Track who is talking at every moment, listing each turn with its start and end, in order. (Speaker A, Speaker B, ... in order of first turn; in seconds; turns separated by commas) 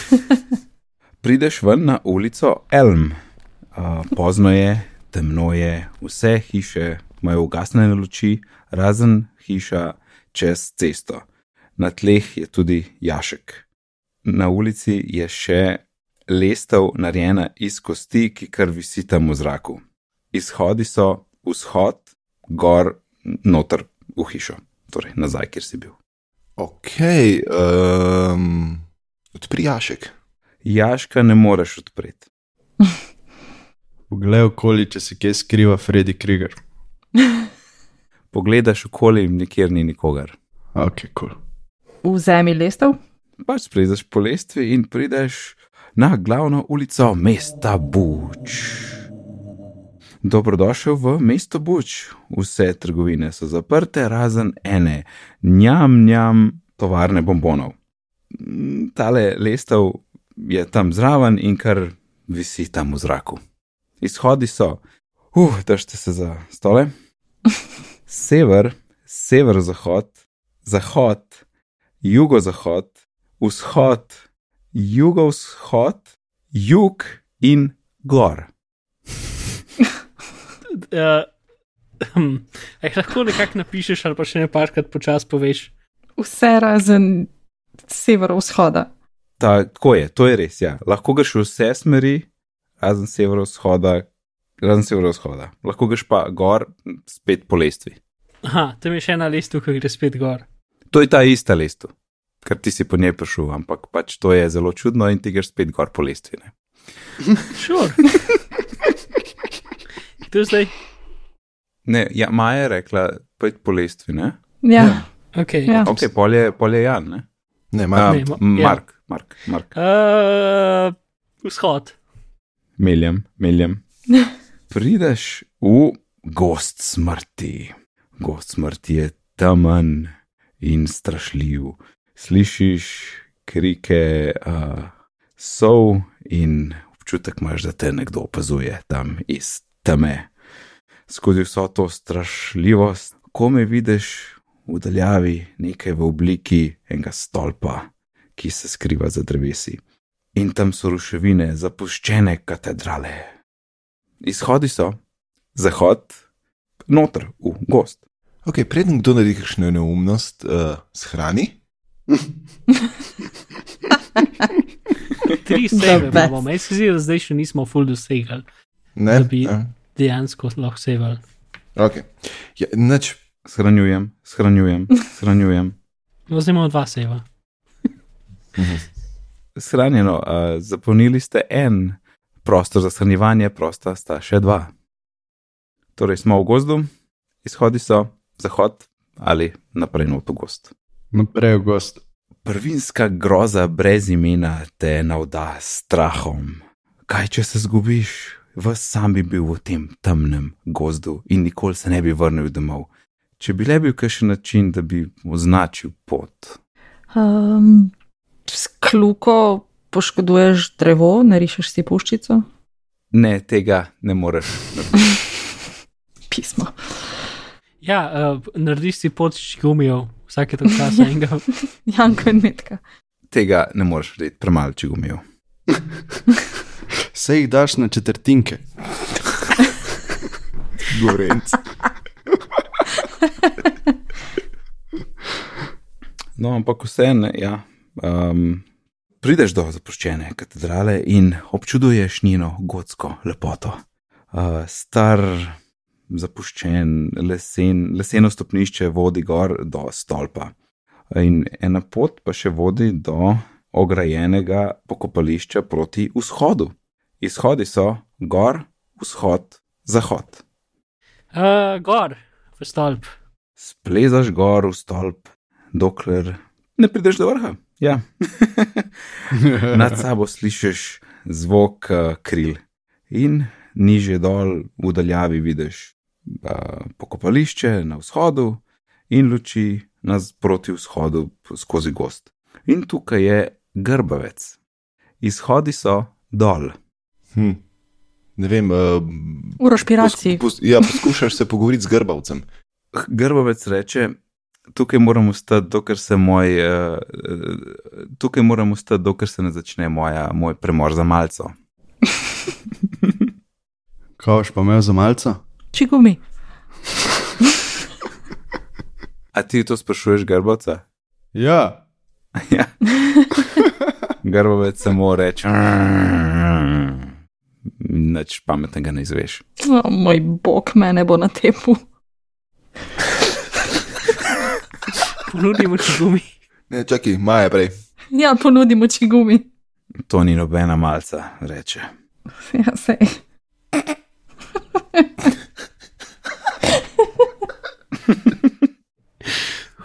Speaker A: 1.2-3.2, Speaker A: 3.8-11.2, Speaker A: 11.8-13.6, Speaker A: 14.2-19.8, Speaker A: 20.3-25.9, Speaker B: 26.6-28.8, Speaker B: 29.3-30.1, Speaker A: 30.6-32.2, Speaker C: 34.1-36.6, Speaker A: 38.3-40.4, Speaker C: 40.8-41.4, Speaker D: 42.0-43.0, Speaker A: 43.4-48.9, Speaker A: 50.2-57.7, Speaker A: 58.3-63.4, Speaker A: 64.0-64.8, Speaker A: 65.3-66.9, Speaker A: 68.1-70.1, Speaker A: 70.7-71.3, Speaker A: 72.0-74.2, Speaker A: 74.7-78.5, Speaker E: 80.7-81.3, Speaker E: 82.0-85.7, Speaker D: 86.2-87.3, Speaker D: 87.9-88.9, Speaker A: 89.4-92.3, Speaker A: 92.8-94.1, Speaker A: 94.6-98.0, Speaker E: 98.4-100.4, Speaker A: 100.9-101.9, Speaker A: 102.4-106.5, Speaker E: 107.6-108.1, Speaker E: 110.2-110.7, Speaker A: 111.9-114.4, Speaker D: 114.6-115.0, Speaker B: 114.8-115.0, Speaker E: 115.3-115.9, Speaker A: 115.8-117.2, Speaker B: 117.7-118.2, Speaker A: 117.9-119.7, Speaker E: 118.1-118.8, Speaker E: 119.7-122.0, Speaker A: 122.8-123.8, Speaker A: 124.7-140.3, Speaker A: 141.1-149.8, Speaker A: 150.3-153.3, Speaker A: 154.2-155.0, Speaker A: 155.6-156.1, Speaker A: 156.9-158.0, Speaker B: 158.4-161.6, Speaker E: 165.4-168.4, Speaker D: 165.8-166.3, Speaker B: 169.0-169.7, Speaker E: 169.1-171.2, Speaker B: 171.8-173.2, Speaker A: 173.4-175.8, Speaker E: 176.3-177.2, Speaker B: 178.6-178.8, Speaker A: 179.6-184.7, Speaker A: 186.0-186.9, Speaker A: 187.4-190.7, Speaker C: 191.1-192.0, Speaker A: 192.4-202.9, Speaker A: 203.4-206.6, Speaker D: 207.1-207.9, Speaker D: 208.5-212.4, Speaker A: 213.1-215.1, Speaker D: 216.3-216.8, Speaker E: 217.8-221.4, Speaker D: 221.8-222.8, Speaker A: 223.3-225.2, Speaker C: 227.1-228.6, Speaker B: 230.9-231.6, Speaker A: 236.4-238.6, Speaker A: 239.2-243.8, Speaker A: 244.3-245.6, Speaker A: 246.1-250.5, Speaker A: 251.1-260.4, Speaker E: 261.3-263.1, Speaker A: 263.6-284.6, Speaker C: 269.4-269.8, Speaker A: 285.2-286.8, Speaker B: 287.4-287.6, Speaker B: 288.4-292.4, Speaker D: 289.6-290.4, Speaker A: 292.9-294.1, Speaker A: 294.7-301.5, Speaker C: 304.2-305.4, Speaker D: 305.7-306.2, Speaker A: 309.3-310.8, Speaker C: 311.3-311.8, Speaker A: 312.4-312.8, Speaker D: 313.0-313.5, Speaker A: 314.2-317.1, Speaker A: 317.8-319.4, Speaker D: 319.6-321.8, Speaker E: 325.3-326.3, Speaker B: 326.7-327.7, Speaker D: 328.1-329.4, Speaker A: 330.1-331.9, Speaker D: 332.5-333.2, Speaker D: 334.9-335.3, Speaker D: 337.0-337.3, Speaker A: 338.1-338.5